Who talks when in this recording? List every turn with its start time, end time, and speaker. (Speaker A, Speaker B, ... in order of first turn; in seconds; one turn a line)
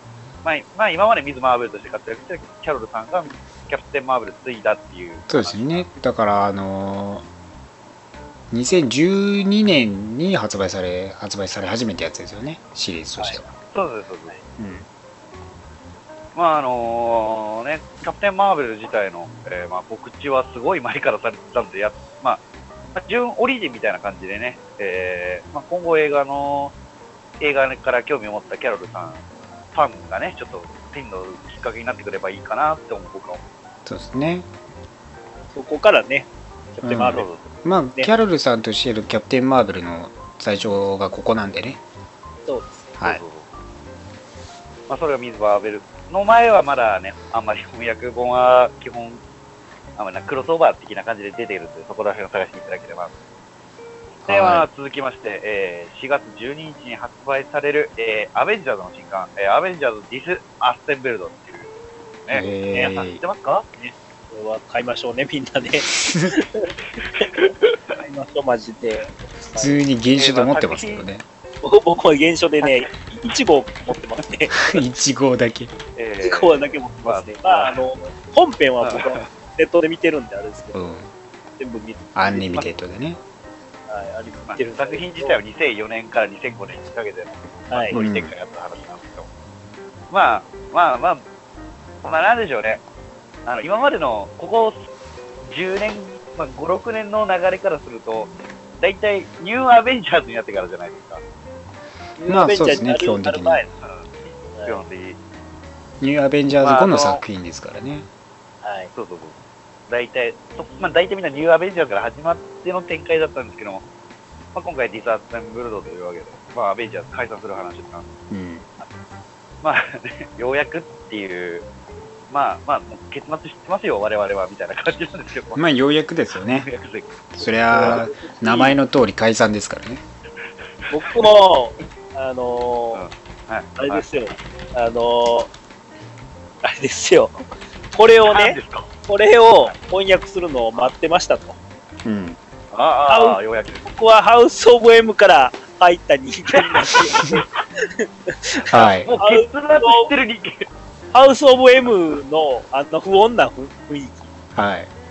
Speaker A: 0.4-5.9
Speaker B: 5.3-7.2
Speaker B: 8.5-13.4
Speaker C: 13.2-13.4
Speaker A: 13.6-14.3
Speaker B: 14.6-14.9
Speaker A: 16.3-22.4
Speaker A: 22.9-26.7
Speaker A: 27.4-29.2
Speaker A: 29.7-33.4
Speaker B: 33.9-34.5
Speaker C: 35.5-37.3
Speaker B: 36.8-41.8
Speaker A: 37.0-37.4
Speaker C: 42.5-43.0
Speaker A: 43.0-43.5
Speaker A: 44.9-49.2
Speaker A: 50.0-53.1
Speaker B: 54.2-54.7
Speaker A: 54.2-61.7
Speaker B: 62.3-63.2
Speaker C: 62.7-63.0
Speaker A: 63.1-63.6
Speaker C: 63.8-67.4
Speaker B: 66.1-66.3
Speaker A: 67.2-68.0
Speaker C: 68.0-69.8
Speaker B: 69.6-71.2
Speaker A: 70.2-71.1
Speaker C: 71.6-74.8
Speaker B: 74.5-75.7
Speaker A: 76.0-77.8
Speaker C: 76.2-80.9
Speaker A: 78.8-79.3
Speaker B: 80.7-81.1
Speaker C: 81.6-82.7
Speaker B: 82.1-83.2
Speaker C: 83.9-85.4
Speaker A: 84.5-89.3
Speaker C: 87.7-88.0
Speaker B: 87.9-88.3
Speaker A: 90.1-91.2
Speaker A: 92.0-92.8
Speaker A: 93.5-94.8
Speaker A: 95.5-101.2
Speaker C: 102.2-103.7
Speaker B: 102.3-103.6
Speaker A: 103.8-105.2
Speaker C: 104.5-104.8
Speaker B: 106.0-108.1
Speaker A: 106.6-107.2
Speaker C: 108.6-108.9
Speaker A: 108.9-109.4
Speaker A: 109.9-113.8
Speaker A: 114.5-118.1
Speaker B: 118.3-118.7
Speaker A: 119.6-121.6
Speaker A: 122.3-125.6
Speaker B: 125.5-126.7
Speaker A: 126.5-128.0
Speaker B: 127.3-130.0
Speaker C: 127.7-128.8
Speaker C: 130.9-133.1
Speaker A: 132.9-134.0
Speaker C: 133.8-135.5
Speaker C: 136.6-141.6
Speaker A: 138.3-138.9
Speaker B: 142.0-142.4
Speaker A: 142.7-143.9
Speaker C: 143.1-150.1
Speaker A: 146.5-147.4
Speaker A: 148.6-150.7
Speaker B: 148.7-149.1
Speaker C: 151.1-154.3
Speaker B: 154.5-154.9